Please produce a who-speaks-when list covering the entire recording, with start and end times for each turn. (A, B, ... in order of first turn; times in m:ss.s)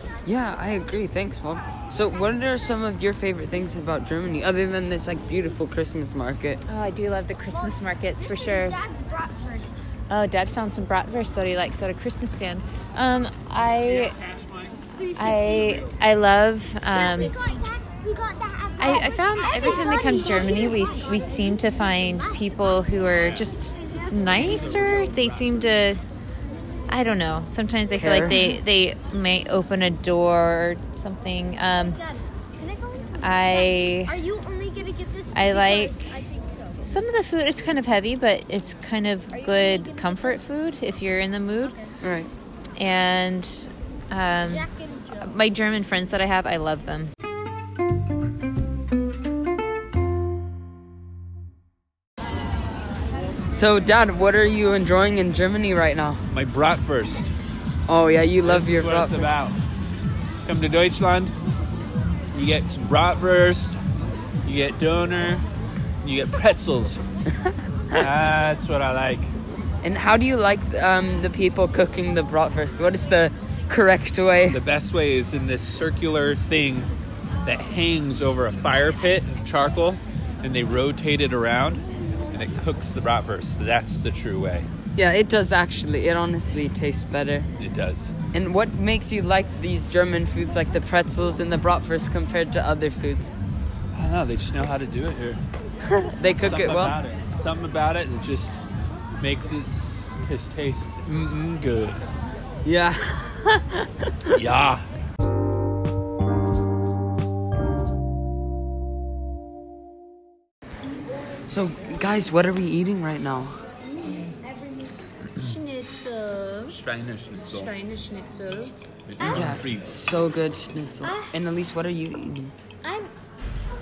0:00.2-0:06.6 A
0:06.7-0:08.8 B
0:07.5-0:09.8 C
0:10.1-0:14.2 B
0:13.8-0:14.9 D
0:14.9-0:15.8 C
0:15.1-0:17.3 B
0:15.7-0:15.9 D
0:16.9-0:22.7 E
0:16.9-0:17.4 C
0:18.8-0:26.0 B
0:23.1-0:23.5 D
0:24.2-0:25.7 D
0:26.9-0:32.0 B
0:27.9-0:28.6 A
0:31.8-0:36.8 C
0:33.2-0:34.2 B
0:35.3-0:36.1 B
0:36.8-0:41.8 B
0:39.3-0:40.4 C
0:41.6-0:41.9 C
0:42.0-0:42.3 A
0:42.8-0:47.1 B
0:44.4-0:45.4 C
0:53.5-0:56.2 A
0:56.3-0:57.3 D
0:57.9-0:59.3 A
0:58.4-0:59.6 D
1:00.4-1:01.3 D
1:02.3-1:03.8 D
1:04.4-1:05.4 D
1:06.0-1:07.0 D
1:07.4-1:08.1 A
1:08.0-1:09.3 D
1:09.8-1:14.6 A
1:14.5-1:16.9 D
1:17.4-1:24.7 D
1:25.0-1:27.5 A
1:27.6-1:28.1 D
1:28.3-1:33.3 A
1:33.9-1:35.4 D
1:35.9-1:37.0 A
1:36.3-1:38.6 D
1:39.2-1:42.0 D
1:42.6-1:44.4 A
1:44.3-1:44.8 D
1:51.4-1:53.6 A
1:55.4-1:56.8 B
1:56.7-1:57.8 D
1:57.5-1:58.7 B
1:59.0-1:59.9 D
1:59.2-2:02.5 A
2:02.8-2:03.1 E